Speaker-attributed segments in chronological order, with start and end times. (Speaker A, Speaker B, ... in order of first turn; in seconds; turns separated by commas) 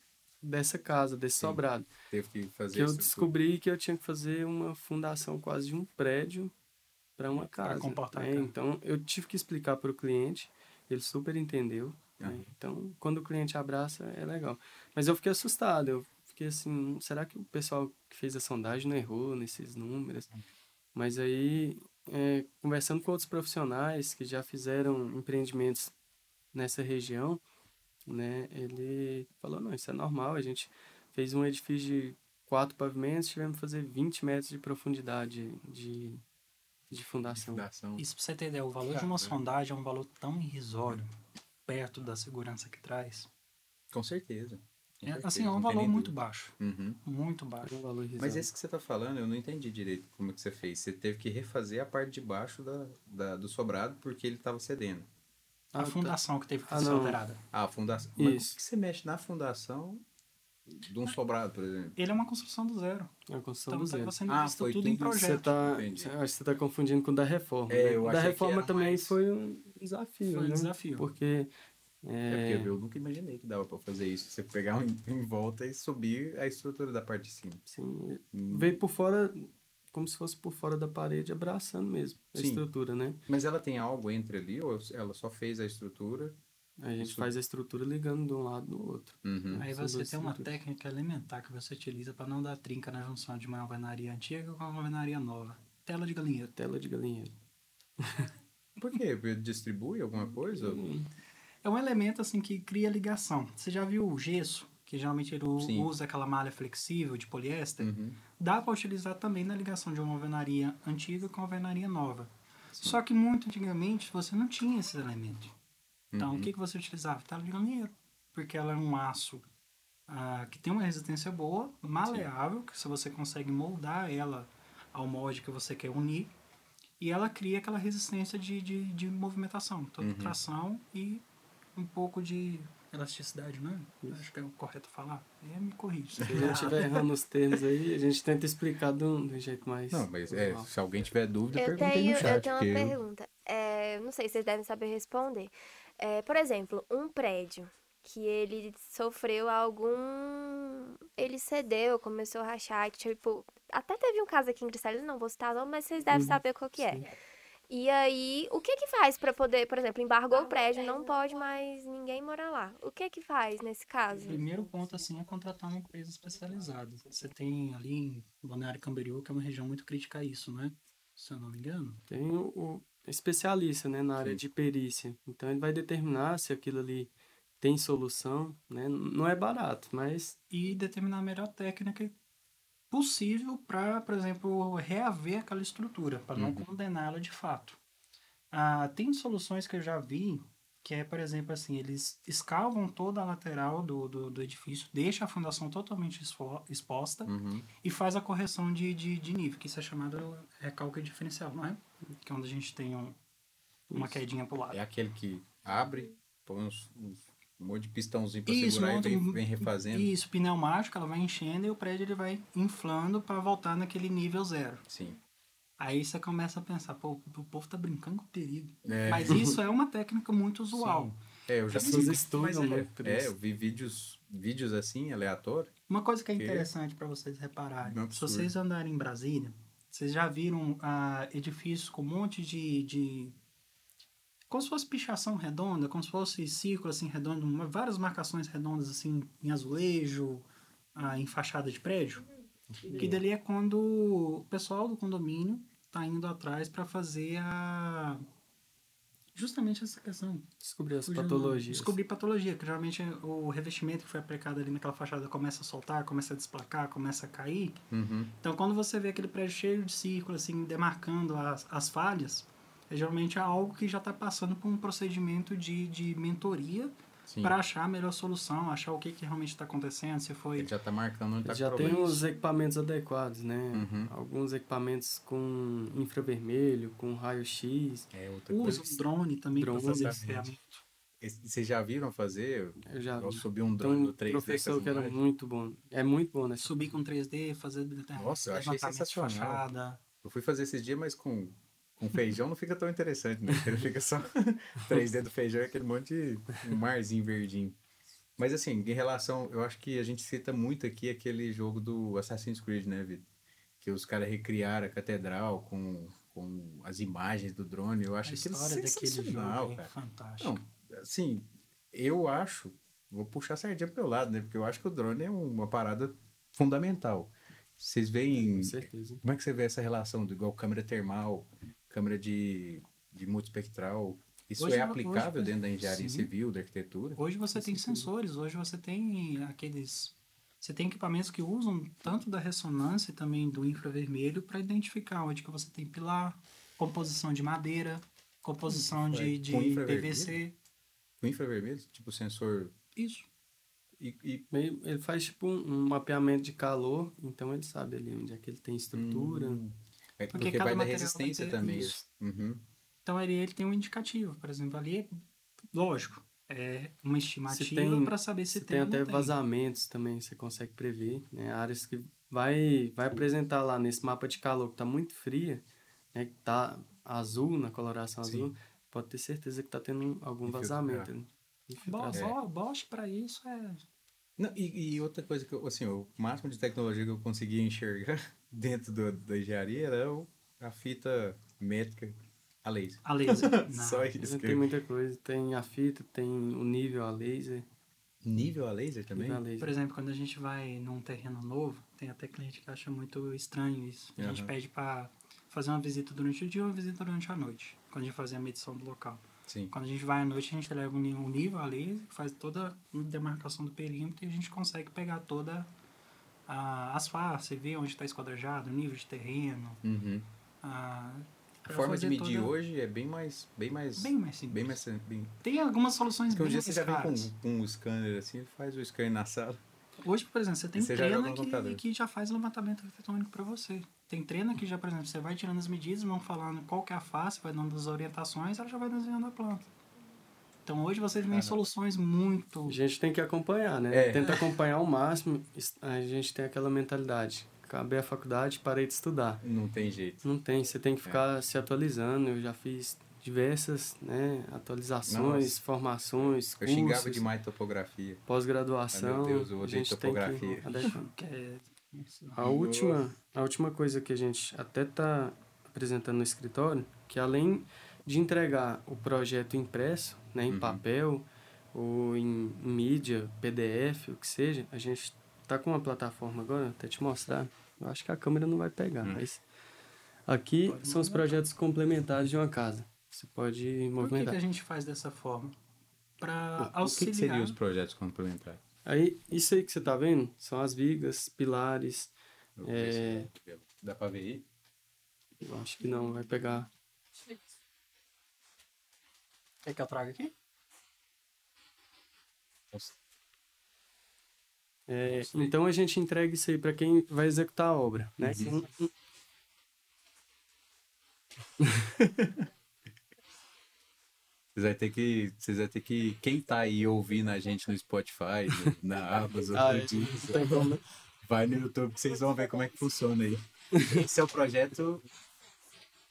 Speaker A: 0.4-1.9, Speaker B: 1.4-3.3, Speaker A: 2.7-6.5, Speaker A: 7.2-20.3, Speaker C: 7.6-8.5, Speaker B: 12.2-12.5, Speaker A: 20.9-25.9, Speaker A: 26.5-27.4, Speaker A: 28.1-36.2, Speaker A: 36.9-37.6, Speaker B: 37.3-38.0, Speaker C: 38.0-43.3, Speaker B: 38.9-39.3, Speaker B: 43.9-47.0, Speaker C: 45.0-47.7, Speaker A: 47.6-48.5, Speaker B: 48.2-55.1, Speaker C: 55.8-57.4, Speaker A: 55.8-57.2, Speaker B: 57.5-60.0, Speaker A: 58.2-58.6, Speaker B: 60.8-62.0, Speaker C: 62.0-63.1, Speaker A: 63.3-64.2, Speaker C: 63.7-65.5, Speaker B: 64.3-66.1, Speaker A: 65.2-71.5, Speaker B: 67.7-69.2, Speaker C: 70.3-71.1, Speaker A: 72.0-72.7, Speaker B: 72.3-77.6, Speaker A: 77.7-83.2, Speaker B: 78.3-78.8, Speaker B: 82.3-82.6, Speaker B: 83.3-86.4, Speaker A: 86.8-90.5, Speaker B: 87.0-87.3, Speaker B: 89.2-89.6, Speaker C: 89.6-96.5, Speaker A: 96.6-97.3, Speaker A: 98.0-98.3, Speaker B: 98.8-100.9, Speaker A: 100.4-101.1, Speaker C: 101.6-115.5, Speaker B: 105.6-105.9, Speaker B: 107.8-108.2, Speaker B: 116.1-116.5, Speaker C: 116.2-119.5, Speaker C: 120.1-126.3, Speaker C: 127.0-131.2, Speaker B: 130.0-130.4, Speaker C: 131.8-136.8, Speaker B: 136.2-136.8, Speaker A: 136.2-140.7, Speaker B: 139.9-143.0, Speaker D: 141.5-157.1, Speaker A: 156.1-157.1, Speaker D: 157.7-164.4, Speaker C: 164.2-172.0, Speaker A: 172.1-180.4, Speaker C: 180.5-182.2, Speaker C: 182.9-187.8, Speaker B: 186.4-186.7, Speaker C: 188.5-203.2, Speaker B: 197.3-197.7, Speaker C: 203.9-204.8, Speaker B: 204.7-210.1, Speaker C: 208.5-214.9, Speaker B: 214.9-215.2, Speaker C: 215.8-221.2, Speaker B: 218.8-219.6, Speaker B: 220.7-225.7, Speaker C: 221.7-222.2, Speaker A: 221.7-223.3, Speaker C: 225.9-233.4, Speaker B: 226.4-226.7, Speaker B: 227.8-228.5, Speaker C: 234.5-242.2, Speaker B: 242.8-243.2, Speaker C: 242.9-248.3, Speaker C: 249.3-250.5, Speaker A: 250.6-252.0, Speaker C: 251.0-257.8, Speaker B: 257.9-258.4, Speaker C: 258.4-270.7, Speaker B: 267.3-267.6, Speaker B: 270.6-272.1, Speaker A: 271.4-278.1, Speaker C: 271.8-272.3, Speaker B: 273.7-274.1, Speaker B: 278.1-279.0, Speaker C: 278.5-280.8, Speaker A: 279.6-280.2, Speaker B: 279.7-280.5, Speaker B: 281.2-285.2, Speaker A: 282.9-286.7, Speaker C: 286.6-290.0, Speaker B: 288.2-289.6, Speaker B: 290.2-297.8, Speaker B: 298.4-303.3, Speaker B: 303.8-327.2, Speaker C: 308.2-310.7, Speaker A: 318.4-319.2, Speaker C: 324.6-326.3, Speaker C: 327.2-340.6, Speaker A: 327.6-328.1, Speaker B: 338.7-340.4, Speaker B: 341.2-342.7, Speaker C: 343.0-343.3, Speaker B: 344.0-344.4, Speaker A: 344.5-349.6, Speaker B: 348.9-352.6, Speaker C: 350.3-352.0, Speaker C: 353.1-355.2, Speaker C: 355.7-359.4, Speaker A: 357.5-365.6, Speaker A: 366.1-372.3, Speaker B: 368.2-368.5, Speaker B: 370.4-371.1, Speaker C: 371.8-373.8, Speaker B: 374.4-384.6, Speaker C: 383.0-384.1, Speaker A: 384.2-387.6, Speaker B: 388.2-389.4, Speaker A: 389.1-389.7, Speaker C: 389.6-405.7, Speaker B: 394.2-394.5, Speaker B: 399.5-399.7, Speaker C: 406.5-409.8, Speaker B: 409.8-410.3, Speaker C: 410.6-412.5, Speaker B: 411.7-415.4, Speaker C: 414.0-414.8, Speaker C: 415.4-417.3, Speaker B: 416.3-419.6, Speaker C: 420.0-429.7, Speaker B: 420.8-421.8, Speaker C: 430.7-432.8, Speaker B: 431.3-431.6, Speaker A: 432.7-439.4, Speaker B: 433.9-434.4, Speaker B: 439.4-440.2, Speaker A: 440.2-447.3, Speaker B: 445.1-445.6, Speaker B: 446.2-448.2, Speaker A: 448.3-451.1, Speaker B: 448.9-450.9, Speaker C: 450.7-452.5, Speaker A: 452.4-469.4, Speaker B: 452.4-453.1, Speaker B: 460.5-460.8, Speaker A: 470.3-474.4, Speaker C: 470.6-471.4, Speaker C: 474.0-475.6, Speaker C: 476.2-477.6, Speaker B: 476.6-478.6, Speaker A: 478.9-482.1, Speaker B: 482.6-484.5, Speaker A: 482.6-483.3, Speaker A: 485.4-486.7, Speaker C: 489.6-490.3, Speaker A: 494.9-498.9, Speaker C: 495.2-495.5, Speaker B: 498.2-498.5, Speaker B: 501.9-502.4, Speaker B: 504.6-515.0, Speaker A: 509.5-510.8, Speaker A: 513.7-514.0